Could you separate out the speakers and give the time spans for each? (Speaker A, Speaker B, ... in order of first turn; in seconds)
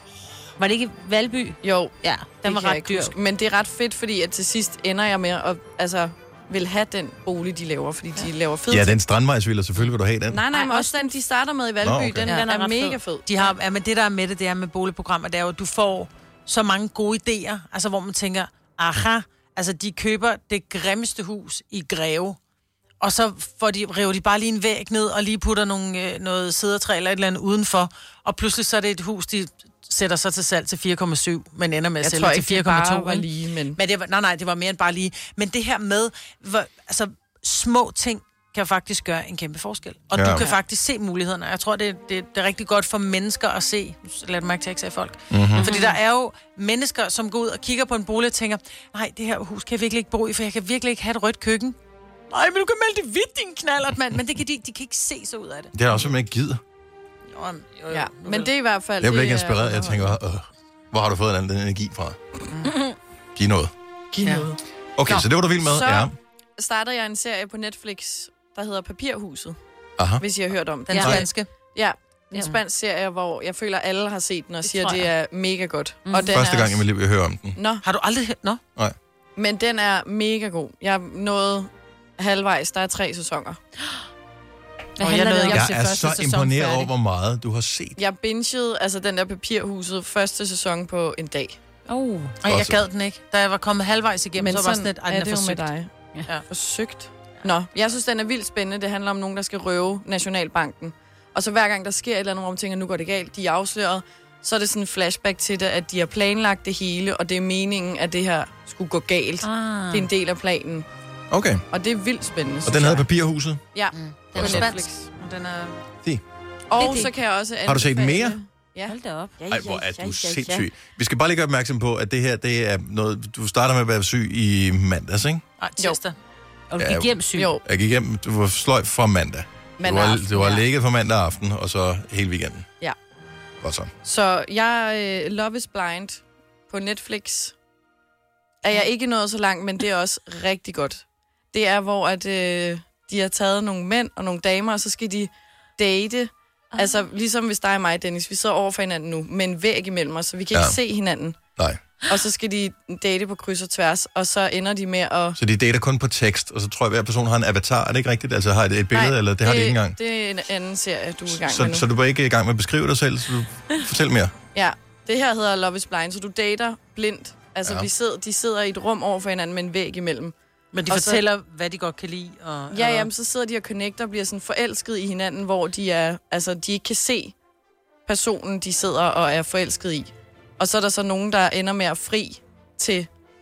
Speaker A: 0.6-3.2, 8.1-8.5, 10.5-11.2, 12.2-13.0, 45.5-46.0, 70.9-71.2, 72.3-72.6, 76.1-76.4, 85.0-85.7, 91.9-92.4, 109.4-110.1, 116.7-117.2, 118.8-120.7, 126.7-127.6, 146.7-147.1
Speaker B: 1.6-8.9, 10.3-13.5, 32.0-33.8, 57.9-60.1, 64.1-69.6, 70.2-76.8, 77.6-77.8, 79.4-83.6, 88.0-91.6, 94.4-95.9, 96.5-110.9, 111.7-113.0, 113.8-115.1, 116.7-119.0, 127.3-127.6, 129.8-130.6, 134.0-137.6, 138.6-151.4, 152.1-155.4, 158.9-161.9, 164.5-170.3, 170.9-171.2, 172.7-177.3, 178.1-183.1
Speaker C: 2.5-3.1, 12.3-22.4, 23.0-51.8, 52.3-56.1, 57.3-58.5, 64.2-64.5, 70.9-71.5, 74.6-75.1, 77.8-78.6, 85.0-86.9, 92.4-95.7, 113.9-115.8, 125.6-126.2, 170.7-173.1
Speaker D: 8.7-10.4, 11.8-12.3, 40.1-40.5, 45.3-45.8, 55.7-56.6, 59.0-62.2, 63.4-63.7, 65.0-66.1, 70.0-70.2, 70.9-71.3, 76.3-77.6, 85.5-88.0, 92.5-92.8, 111.3-111.6, 112.7-113.6, 114.3-114.7, 117.7-118.4, 119.5-125.4, 126.8-132.7, 133.6-133.9, 150.5-150.8, 155.4-160.0, 161.3-164.3, 167.6-167.9